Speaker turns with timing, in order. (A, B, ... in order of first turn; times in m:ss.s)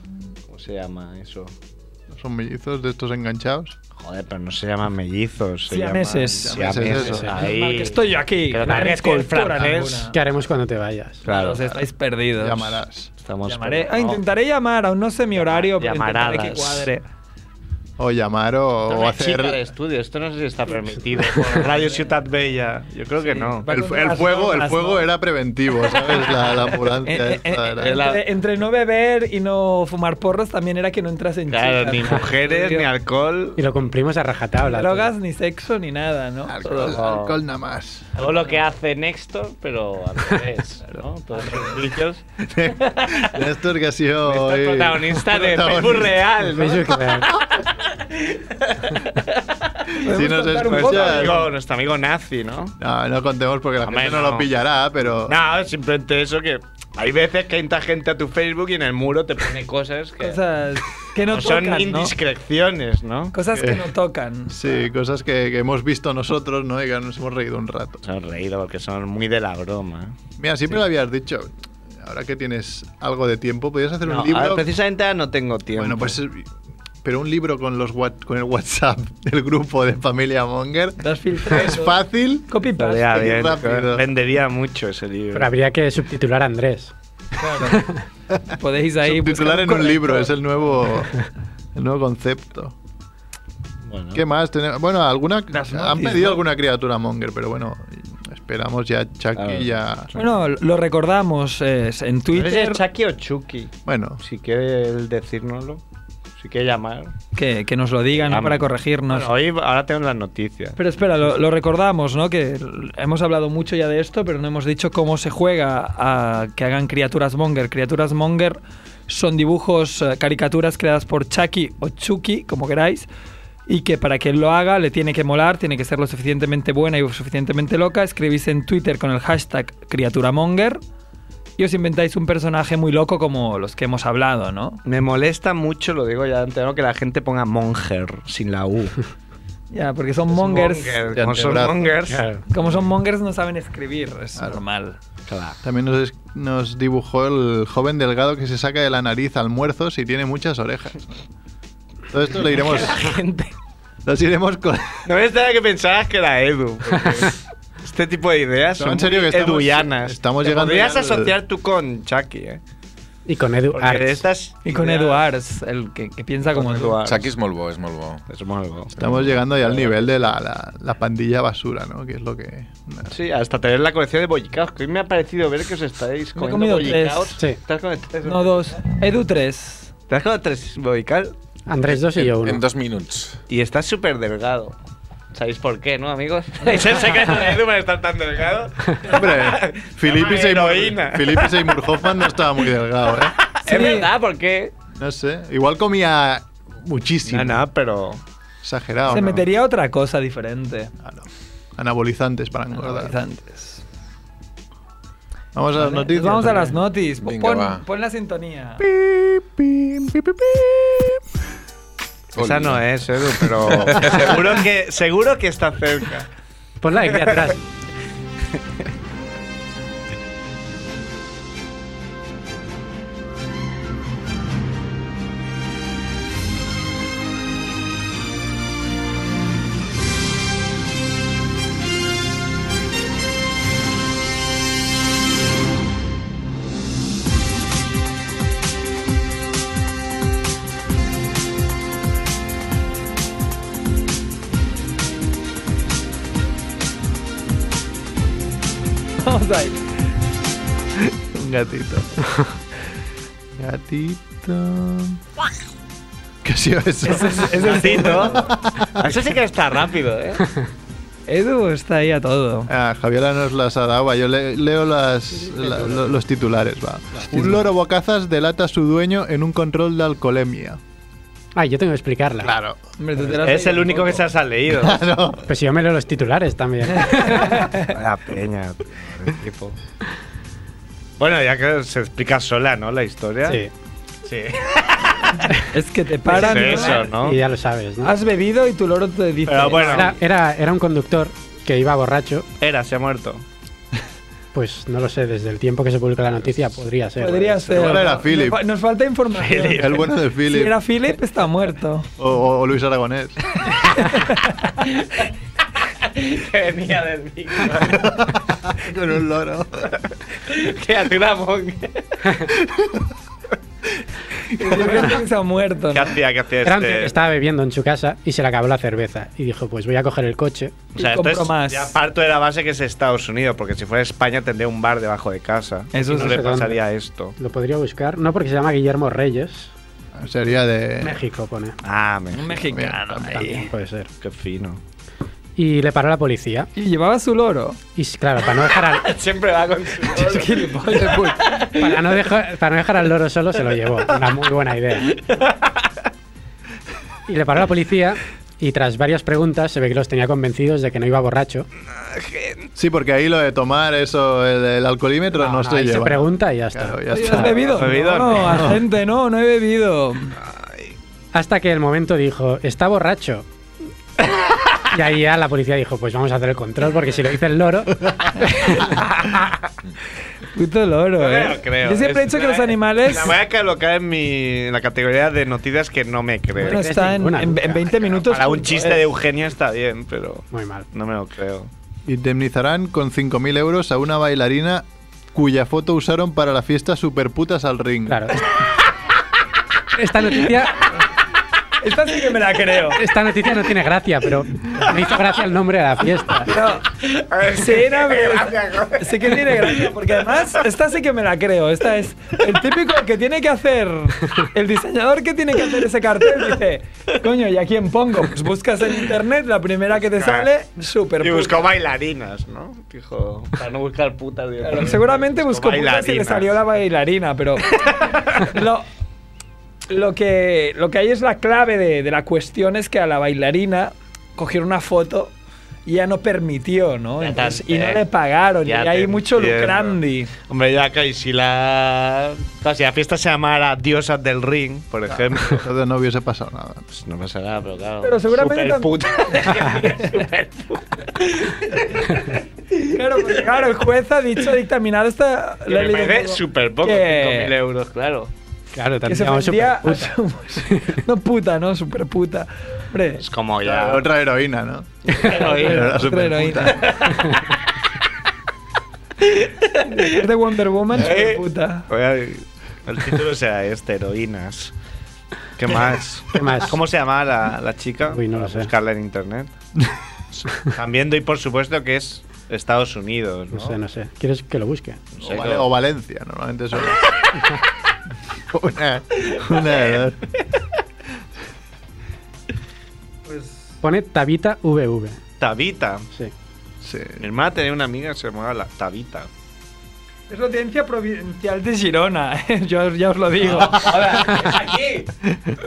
0:00.5-0:01.5 A
0:02.1-0:03.8 B
0:04.0-0:10.1 A
0:05.7-0:10.2 C
0:06.5-0:07.3 B
0:10.1-0:11.2 D
0:11.2-0:11.8 A
0:11.2-0:12.8 C
0:12.4-0:13.1 B
0:13.2-0:14.2 A
0:13.4-0:17.1 C
0:15.4-0:16.9 A
0:18.0-0:19.6 B
0:18.9-0:23.7 A
0:21.6-0:22.0 C
0:23.2-0:25.0 C
0:23.7-0:28.0 B
0:27.0-0:32.9 C
0:27.8-0:28.2 A
0:31.5-0:33.6 A
0:33.6-0:35.1 D
0:34.6-0:37.0 C
0:36.5-0:38.1 B
0:36.8-0:37.4 A
0:38.2-0:43.4 A
0:40.9-0:41.8 C
0:42.5-0:46.2 B
0:44.2-0:50.0 A
0:46.4-0:47.4 D
0:50.0-0:51.5 C
0:50.0-0:51.5 B
0:50.6-0:52.8 A
0:52.8-0:55.4 B
0:53.8-0:54.5 A
0:55.3-1:00.4 A
1:00.2-1:02.1 C
1:01.3-1:03.4 A
1:03.3-1:04.6 C
1:03.6-1:03.9 B
1:04.5-1:08.0 B
1:08.0-1:10.2 A
1:10.4-1:14.7 B
1:14.0-1:16.2 A
1:15.8-1:16.5 B
1:17.0-1:22.5 B
1:21.0-1:23.3 C
1:22.8-1:25.5 A
1:23.2-1:24.1 B
1:25.3-1:26.9 D
1:27.4-1:27.8 C
1:28.5-1:30.4 C
1:29.0-1:31.2 B
1:31.8-1:32.8 B
1:33.8-1:34.2 A
1:34.2-1:40.2 B
1:35.5-1:36.4 C
1:39.4-1:39.8 A
1:40.1-1:42.8 C
1:42.3-1:45.8 A
1:43.9-1:44.2 B
1:46.4-1:47.2 A
1:47.3-1:49.3 C
1:48.1-1:50.8 A
1:50.8-2:03.1 C
2:03.7-2:10.8 C
2:11.6-2:14.8 C
2:14.8-2:19.0 A
2:19.7-2:21.0 C
2:20.3-2:22.2 A
2:21.1-2:22.0 B
2:22.1-2:22.4 D
2:22.5-2:25.0 C
2:25.3-2:25.6 A
2:25.6-2:31.1 B
2:32.1-2:33.1 B
2:32.5-2:33.5 A
2:34.0-2:35.1 B
2:35.0-2:42.6 A
2:38.8-2:41.3 B
2:43.3-2:44.2 D
2:43.7-2:45.2 A
2:44.6-2:47.0 C
2:46.5-2:47.3 A
2:47.0-2:48.2 E
2:48.3-2:50.0 A
2:49.0-2:53.2 B
2:53.1-2:58.6 A
2:56.4-2:57.4 C
2:58.2-2:59.9 C
3:00.1-3:01.3 A
3:01.7-3:02.6 D
3:01.9-3:03.4 E
3:03.5-3:04.8 A
3:05.3-3:12.0 A
3:09.0-3:13.4 B
3:13.4-3:14.7 A
3:13.6-3:14.1 C
3:15.0-3:17.7 B
3:17.3-3:18.2 A
3:18.6-3:19.5 B
3:19.1-3:20.9 C
3:21.0-3:23.2 B
3:22.8-3:23.8 C
3:25.6-3:26.8 B
3:25.8-3:28.8 C
3:27.2-3:27.8 E
3:28.8-3:31.2 B
3:32.4-3:36.3 A
3:32.4-3:32.9 E
3:33.4-3:34.4 E
3:36.8-3:37.6 D
3:37.0-3:37.5 A
4:09.2-4:09.8 C
4:11.3-4:12.0 B
4:13.6-4:15.2 B
4:16.4-4:19.1 B
4:17.0-4:18.5 C
4:17.6-4:20.4 A
4:21.3-4:22.7 C
4:22.7-4:30.8 B
4:31.6-4:32.5 D
4:32.4-4:32.8 B
4:33.0-4:34.3 C
4:33.2-4:35.0 A
4:34.7-4:35.5 B
4:35.5-4:37.7 D
4:36.9-4:37.9 C
4:37.9-4:39.8 A
4:41.2-4:43.6 A
4:43.4-4:43.7 D
4:44.2-4:45.5 A
4:45.7-4:47.1 C
4:46.3-4:47.4 A
4:46.6-4:48.2 D
4:48.0-4:50.1 C
4:49.5-4:50.1 A
4:49.8-4:52.5 D
4:52.6-4:53.4 A
4:54.5-4:57.7 D
4:57.2-5:02.1 C
4:57.6-4:58.1 A
4:57.7-4:58.6 B
4:59.4-4:59.8 A
4:59.6-5:00.8 B
5:02.2-5:03.4 B
5:04.0-5:04.5 C
5:06.0-5:08.2 A
5:07.8-5:09.9 B
5:10.4-5:12.5 A
5:12.6-5:13.0 B
5:14.5-5:16.2 C
5:15.9-5:17.1 A
5:16.6-5:20.9 D
5:21.0-5:22.0 C
5:21.0-5:27.4 A
5:25.9-5:26.5 C
5:26.0-5:26.8 D
5:27.4-5:29.7 D
5:30.1-5:31.2 B
5:31.0-5:31.8 D
5:31.8-5:32.6 A
5:32.3-5:33.7 C
5:32.6-5:33.5 B
5:33.3-5:34.1 D
5:34.2-5:34.8 A
5:35.6-5:36.7 D
5:36.8-5:37.8 C
5:38.0-5:39.1 D
5:38.6-5:41.9 A
5:40.1-5:41.7 C
5:41.6-5:45.2 D
5:45.1-5:45.9 A
5:47.3-5:51.7 D
5:52.0-5:52.7 A
5:52.8-5:57.8 B
5:55.4-5:57.5 D
5:57.1-6:00.4 C
5:57.6-5:58.7 A
5:58.4-5:58.8 B
6:01.3-6:03.5 D
6:04.9-6:08.9 D
6:08.8-6:09.7 A
6:10.5-6:13.4 C
6:11.2-6:16.8 A
6:16.6-6:19.0 C
6:16.7-6:18.0 D
6:18.0-6:21.7 A
6:20.5-6:20.8 D
6:22.1-6:28.4 B
6:28.1-6:28.4 D
6:29.9-6:30.9 D
6:31.8-6:33.0 C
6:32.9-6:36.5 D
6:36.4-6:36.8 C
6:37.0-6:40.4 A
6:37.5-6:51.6 C
6:50.0-6:50.5 A
6:51.2-6:56.6 A
6:54.6-6:58.9 C
6:57.7-6:58.5 A
6:59.9-7:05.3 C
7:05.9-7:10.3 C
7:07.2-7:08.0 A
7:08.6-7:15.6 A
7:15.5-7:16.8 B
7:16.9-7:23.7 A
7:18.0-7:20.1 C
7:22.7-7:27.5 C
7:25.7-7:28.3 A
7:28.7-7:30.2 D
7:29.0-7:33.2 C
7:30.7-7:31.0 D
7:33.2-7:34.1 A
7:33.6-7:37.0 B
7:35.1-7:36.0 A
7:35.2-7:37.2 C
7:36.6-7:37.4 A
7:39.3-7:40.2 A
7:39.9-7:41.9 C
7:40.9-7:44.7 A
7:45.6-7:49.5 A
7:46.3-7:46.8 D
7:48.1-7:48.7 D
7:50.5-7:53.8 A
7:53.5-7:55.0 D
7:55.1-7:55.7 A
7:55.2-7:57.0 B
7:58.5-8:00.2 B
8:03.2-8:03.8 C
8:03.8-8:05.2 D
8:05.4-8:06.1 A
8:06.8-8:07.2 B
8:07.2-8:09.3 A
8:10.3-8:14.2 C
8:13.6-8:15.1 A